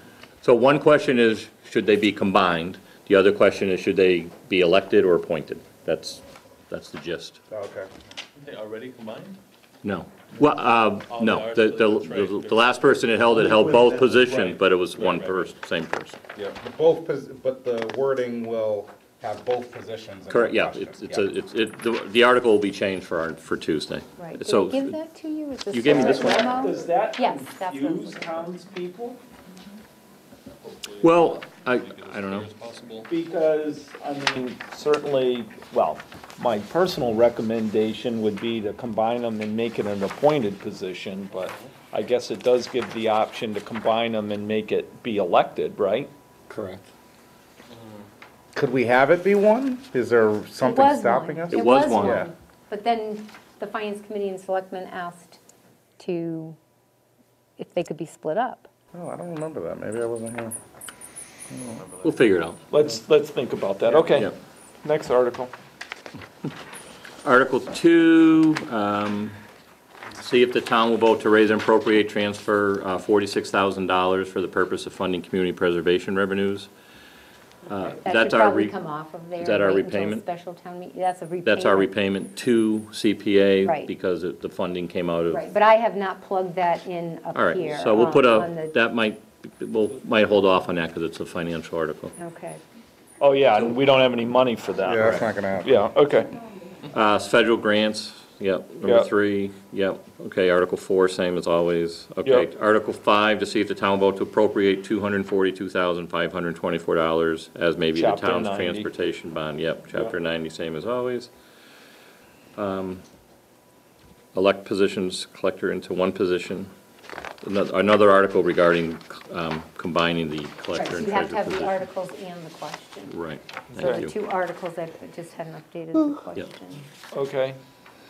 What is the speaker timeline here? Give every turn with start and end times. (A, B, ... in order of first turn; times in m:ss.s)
0:00.4-0:07.4 A
0:07.5-0:07.9 B
0:08.4-0:09.4 C
0:09.8-0:16.2 A
0:11.1-0:13.4 C
0:13.3-0:14.2 B
0:14.3-0:14.6 C
0:16.6-0:21.3 B
0:20.3-0:25.0 A
0:24.2-0:28.5 D
0:25.7-0:26.6 A
0:25.9-0:29.2 E
0:30.6-0:33.1 C
0:31.0-0:32.5 A
0:33.1-0:46.1 E
0:41.4-0:41.7 C
0:46.5-0:46.9 A
0:48.5-0:52.3 B
0:50.6-0:55.4 D
0:51.5-0:52.2 A
0:56.0-0:56.6 D
0:57.6-0:58.7 D
0:58.9-1:00.5 B
1:01.5-1:01.8 B
1:02.0-1:02.6 A
1:02.7-1:04.3 E
1:04.0-1:04.3 A
1:04.8-1:05.5 E
1:07.2-1:09.4 A
1:10.2-1:16.7 A
1:17.7-1:18.8 A
1:17.8-1:21.9 D
1:19.4-1:20.2 A
1:21.4-1:25.4 A
1:23.6-1:23.9 D
1:25.3-1:28.8 D
1:27.3-1:32.1 A
1:32.2-1:32.6 D
1:33.2-1:36.3 E
1:34.8-1:35.8 B
1:36.9-1:51.3 A
1:38.8-1:39.1 E
1:47.9-1:48.9 E
1:52.6-1:53.0 A
1:54.3-1:56.7 A
1:57.4-2:01.8 A
2:00.7-2:03.2 D
2:03.1-2:04.1 A
2:03.8-2:06.8 D
2:07.1-2:07.6 E